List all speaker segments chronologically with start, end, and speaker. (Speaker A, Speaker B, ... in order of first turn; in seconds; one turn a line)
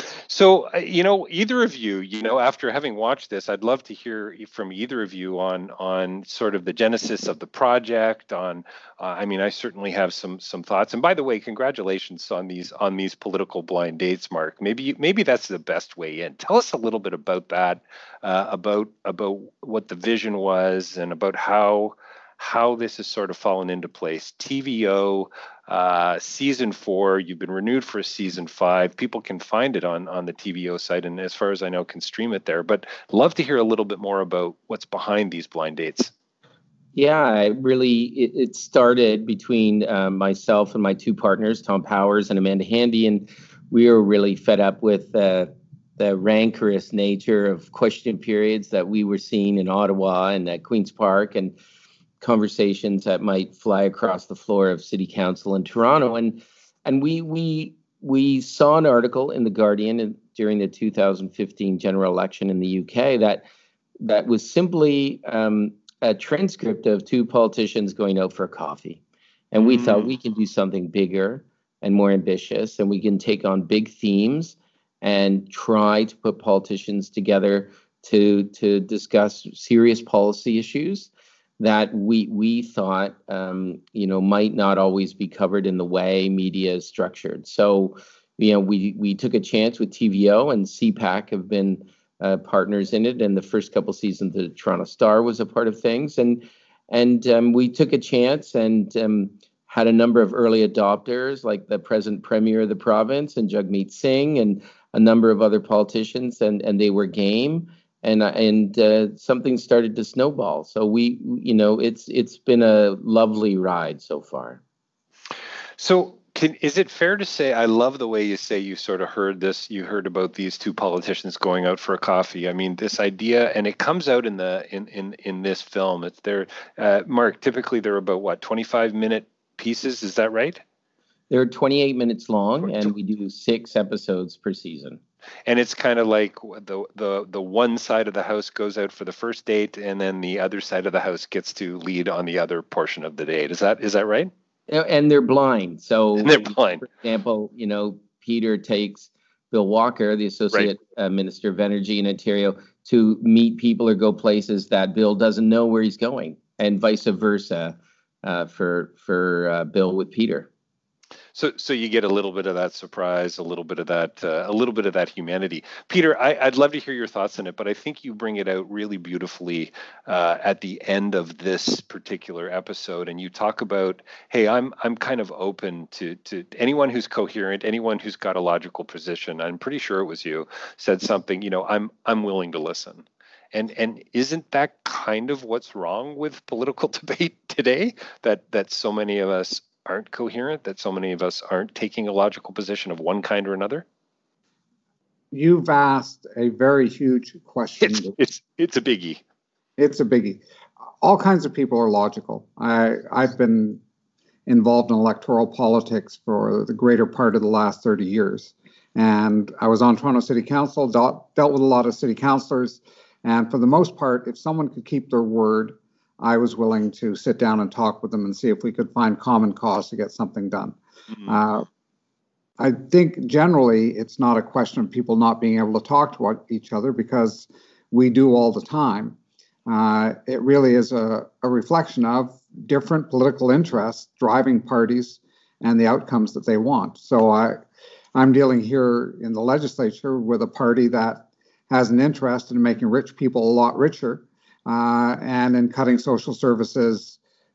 Speaker A: 0.3-36.1
Speaker B: 37.0-51.6
Speaker B: 52.2-63.5
Speaker B: 64.0-69.0
Speaker B: 69.5-114.6
Speaker A: 69.6-70.1
Speaker A: 115.8-130.6
Speaker B: 131.3-135.0
Speaker A: 132.7-132.9
Speaker A: 135.5-144.3
Speaker B: 144.7-160.5
Speaker A: 146.2-146.9
Speaker A: 161.3-193.8
Speaker C: 195.3-198.2
Speaker A: 197.8-199.2
Speaker C: 199.8-200.4
Speaker C: 201.0-203.8
Speaker C: 204.5-221.7
Speaker A: 221.1-221.4
Speaker C: 222.6-237.6
Speaker C: 238.2-247.2